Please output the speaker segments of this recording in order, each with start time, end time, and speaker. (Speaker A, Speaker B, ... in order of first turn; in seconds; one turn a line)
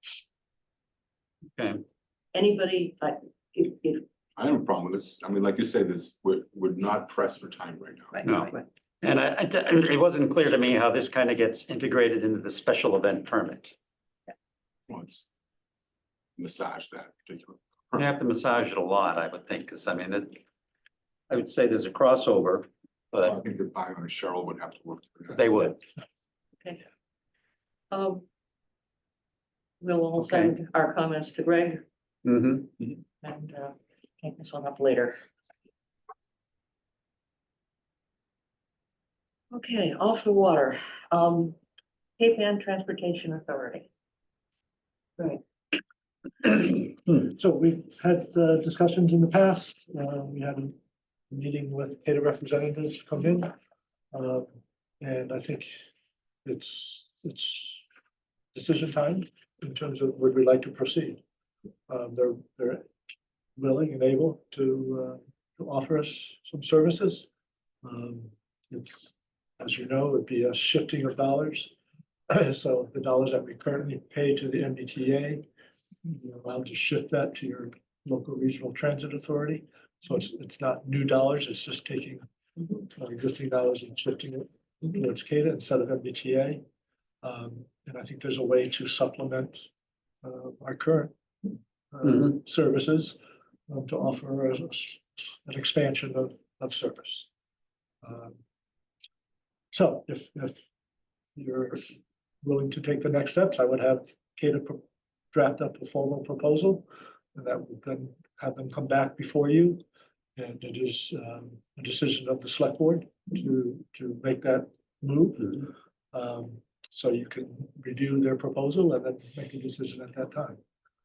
Speaker A: 1.6-1.8
Speaker B: 2.3-4.0
Speaker C: 4.4-8.2
Speaker B: 8.1-8.6
Speaker A: 8.2-13.8
Speaker C: 14.9-15.2
Speaker C: 16.4-18.1
Speaker A: 17.9-20.4
Speaker A: 21.3-23.4
Speaker C: 23.2-25.6
Speaker A: 25.3-25.8
Speaker B: 27.9-28.2
Speaker B: 29.8-31.8
Speaker A: 30.2-30.5
Speaker A: 32.2-32.8
Speaker B: 33.2-35.1
Speaker B: 39.5-41.6
Speaker B: 42.2-43.9
Speaker D: 46.5-50.8
Speaker D: 51.3-53.5
Speaker D: 54.1-55.9
Speaker D: 56.5-57.8
Speaker D: 58.5-61.2
Speaker D: 61.9-62.9
Speaker D: 63.5-67.3
Speaker D: 67.8-71.7
Speaker D: 72.3-75.4
Speaker D: 76.0-86.6
Speaker D: 87.2-89.7
Speaker D: 90.2-97.3
Speaker D: 98.0-98.4
Speaker D: 99.7-100.5
Speaker D: 101.3-109.8
Speaker D: 110.3-120.6